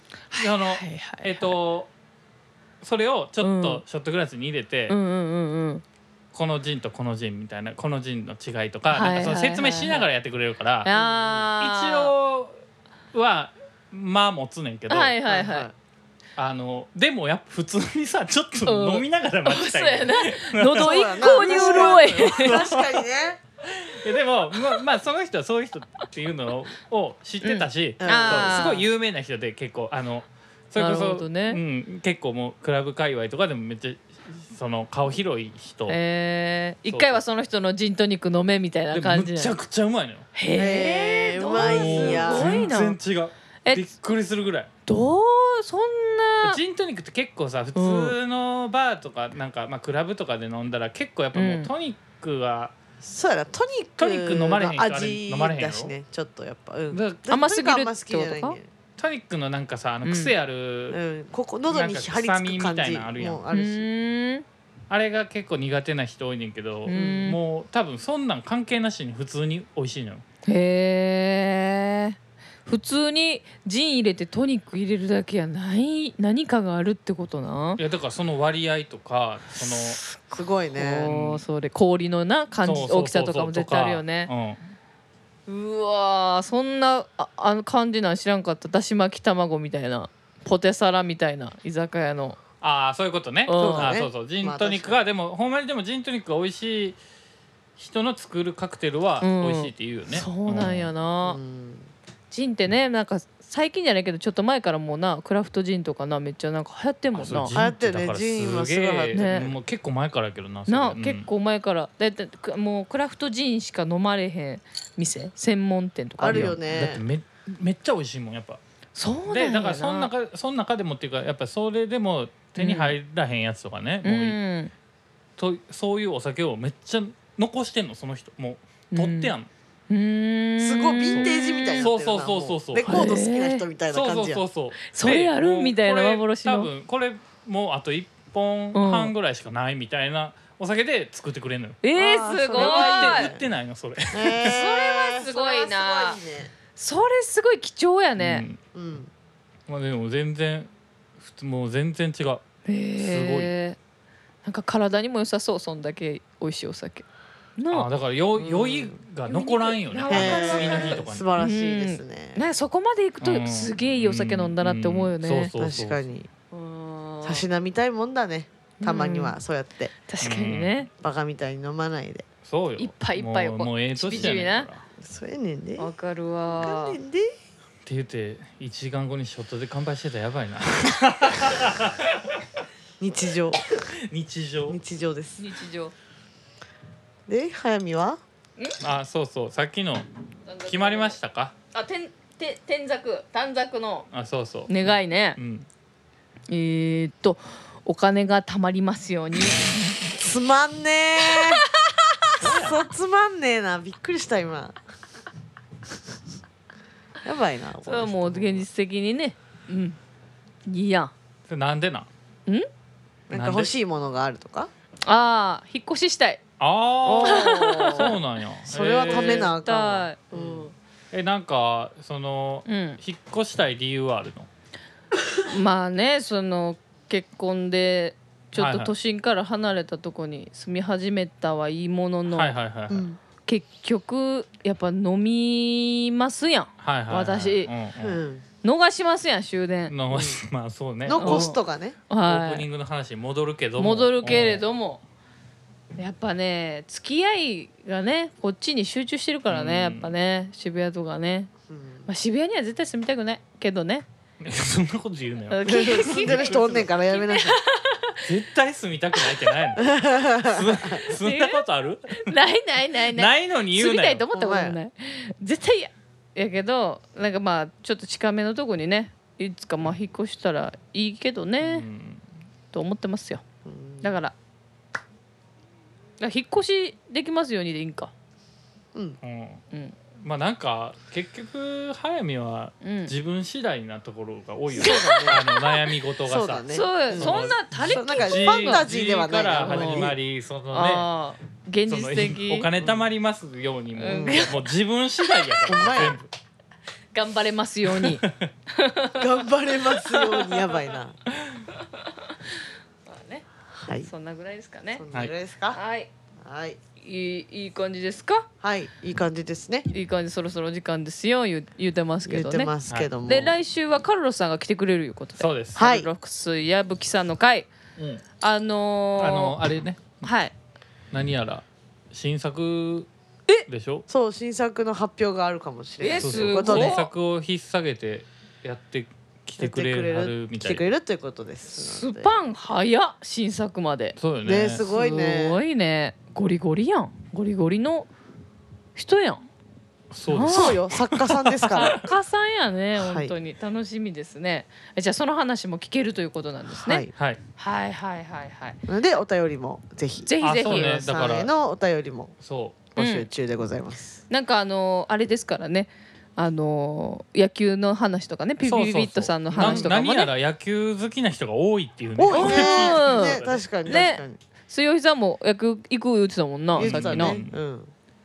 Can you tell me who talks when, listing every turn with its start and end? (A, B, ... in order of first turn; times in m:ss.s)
0:00.3-0:01.5 A
0:00.3-0:01.9 B
0:02.8-0:05.0 B
0:03.4-0:03.8 A
0:04.9-0:05.8 A
0:06.3-0:10.9 B
0:08.9-0:10.1 A
0:10.8-0:12.1 A
0:10.9-0:11.5 C
0:11.6-0:12.6 B
0:13.1-0:15.2 B
0:14.9-0:15.7 A
0:15.3-0:15.7 C
0:16.4-0:23.0 B
0:18.6-0:22.6 A
0:20.8-0:23.4 C
0:23.6-0:36.0 B
0:27.4-0:28.8 A
0:28.0-0:28.8 C
0:30.8-0:31.6 A
0:35.9-0:39.6 A
0:36.9-0:37.2 B
0:38.9-0:40.3 B
0:40.4-0:43.0 A
0:40.5-0:42.7 C
0:41.6-0:44.7 B
0:44.9-0:46.6 A
0:46.4-0:52.7 B
0:47.8-0:48.2 A
0:51.4-0:51.7 A
0:53.0-0:58.7 C
0:54.0-0:55.9 B
0:56.9-0:57.3 B
0:57.3-0:58.6 A
0:59.0-1:01.0 B
1:00.0-1:00.3 A
1:00.9-1:03.9 C
1:01.7-1:03.4 B
1:03.5-1:04.4 A
1:04.9-1:10.2 B
1:06.9-1:07.4 A
1:06.9-1:07.3 C
1:10.4-1:17.8 A
1:17.8-1:20.0 B
1:20.3-1:21.1 C
1:20.7-1:24.3 A
1:21.1-1:21.4 B
1:22.6-1:24.6 B
1:25.5-1:32.4 A
1:32.6-1:37.0 B
1:33.5-1:33.9 A
1:33.6-1:35.0 C
1:37.8-1:40.9 B
1:39.2-1:41.4 A
1:41.2-1:41.9 C
1:42.3-1:47.6 A
1:47.2-1:51.3 B
1:47.5-1:49.6 C
1:49.1-1:49.5 A
1:50.7-1:56.5 A
1:56.2-1:57.0 C
1:56.3-1:58.6 B
1:59.0-2:00.1 A
1:59.3-2:04.4 B
2:02.6-2:03.0 A
2:04.0-2:04.7 A
2:05.4-2:09.5 B
2:08.9-2:09.4 A
2:09.9-2:11.9 A
2:10.6-2:14.4 C
2:11.1-2:13.0 B
2:12.8-2:13.7 A
2:13.9-2:21.8 B
2:14.9-2:16.7 A
2:18.7-2:19.1 A
2:21.8-2:23.3 A
2:22.0-2:23.5 C
2:22.6-2:24.6 B
2:24.1-2:26.5 C
2:24.4-2:26.2 A
2:26.7-2:28.5 A
2:28.2-2:28.6 B
2:28.7-2:29.1 C
2:29.7-2:32.4 B
2:32.7-2:33.8 A
2:33.0-2:33.5 B
2:34.4-2:37.0 A
2:37.6-2:37.9 A
2:37.7-2:41.3 B
2:38.4-2:39.0 C
2:39.3-2:45.5 A
2:40.1-2:42.5 C
2:43.2-2:46.0 B
2:45.6-2:46.3 C
2:46.5-2:47.4 A
2:47.2-2:49.9 C
2:48.8-2:49.4 A
2:50.1-2:50.9 A
2:50.2-2:50.9 B
2:51.0-2:52.2 C
2:52.4-2:54.8 B
2:52.8-2:54.7 A
2:54.1-2:54.4 C
2:55.0-2:55.9 C
2:55.8-2:57.0 A
2:56.6-2:57.3 C
2:57.9-3:02.4 B
3:03.0-3:03.6 C
3:03.7-3:04.8 B
3:04.7-3:05.4 C
3:05.4-3:05.9 A
3:07.3-3:08.2 C
3:08.8-3:10.0 B
3:10.5-3:11.2 A
3:10.6-3:11.5 B
3:11.7-3:14.1 A
3:14.1-3:15.7 B
3:14.7-3:15.4 A
3:16.5-3:19.7 A
3:20.0-3:21.6 C
3:21.2-3:22.0 A
3:22.3-3:22.8 B
3:22.4-3:24.8 C
3:27.2-3:28.7 C
3:27.8-3:30.0 A
3:30.7-3:31.1 A
3:31.5-3:32.1 B
3:33.3-3:34.7 C
3:33.3-3:33.7 B
3:35.1-3:36.4 A
3:36.6-3:39.5 B
3:37.0-3:40.7 C
3:37.2-3:38.2 A
3:39.0-3:40.7 A
3:41.1-3:44.5 B
3:42.7-3:43.0 A
3:45.5-3:52.5 A
3:48.6-3:48.9 B
3:52.3-3:53.1 B
3:52.9-3:53.2 C
3:53.5-3:57.7 A
3:56.8-3:58.2 B
3:58.0-3:58.4 C
3:58.6-3:59.9 A
3:59.9-4:01.5 B
4:00.1-4:00.4 C
4:01.0-4:02.0 C
4:01.2-4:02.6 A
4:02.2-4:04.6 B
4:03.8-4:05.0 A
4:06.0-4:11.5 A
4:09.5-4:10.1 B
4:11.7-4:12.1 C
4:12.1-4:14.1 A
4:14.4-4:16.9 B
4:15.5-4:18.2 A
4:15.7-4:17.6 C
4:18.2-4:19.9 B
4:19.8-4:21.1 C
4:20.5-4:22.4 B
4:21.1-4:21.6 A
4:22.1-4:31.9 A
4:23.1-4:24.2 B
4:24.3-4:24.8 C
4:31.6-4:32.2 B
4:32.7-4:33.4 A
4:33.6-4:34.2 C
4:34.0-4:34.3 A
4:36.2-4:38.1 A
4:39.2-4:39.6 B
4:40.2-4:51.1 B
4:42.8-4:43.1 A
4:44.7-4:45.4 C
4:44.8-4:45.9 A
4:46.3-4:50.2 C
4:46.7-4:48.9 A
4:49.6-4:50.1 A
4:50.7-4:52.7 A
4:51.9-4:56.3 B
4:52.8-4:53.0 C
4:54.0-4:54.7 A
4:54.1-4:54.5 C
4:55.2-4:55.6 A
4:55.7-4:56.2 C
4:57.1-4:59.4 A
4:58.0-4:58.5 B
4:59.2-5:01.2 C
5:00.0-5:00.9 A
5:01.8-5:02.3 A
5:03.1-5:03.4 A
5:03.7-5:04.1 C
5:04.0-5:05.0 A
5:05.0-5:05.8 C
5:05.7-5:06.1 A
5:06.4-5:06.8 C
5:07.0-5:08.5 A
5:08.6-5:09.9 C
5:09.9-5:12.7 A
5:12.3-5:13.6 C
5:13.2-5:17.7 A
5:15.4-5:15.9 B
5:15.8-5:16.1 C
5:18.0-5:18.2 B
5:18.4-5:19.6 A
5:19.2-5:20.3 B
5:20.2-5:20.5 A
5:21.1-5:23.1 B
5:23.7-5:24.1 B
5:24.1-5:27.0 C
5:26.0-5:27.1 A
5:26.2-5:30.8 B
5:29.6-5:32.4 C
5:31.7-5:34.2 A
5:34.2-5:34.9 B
5:34.4-5:35.6 C
5:34.9-5:38.1 A
5:39.0-5:39.5 A
5:40.1-5:42.1 B
5:40.3-5:40.8 A
5:40.4-5:42.1 C
5:41.7-5:48.8 A
5:43.0-5:43.4 C
5:46.7-5:47.1 C
5:48.9-5:52.3 C
5:50.2-5:51.0 A
5:50.4-5:51.5 B
5:52.4-5:52.8 B
5:52.9-5:54.2 C
5:53.0-5:53.3 A
5:54.3-6:00.3 A
5:58.6-6:03.6 B
5:59.5-5:59.9 C
6:02.2-6:04.4 C
6:02.3-6:07.4 A
6:06.8-6:07.6 B
6:06.8-6:07.9 C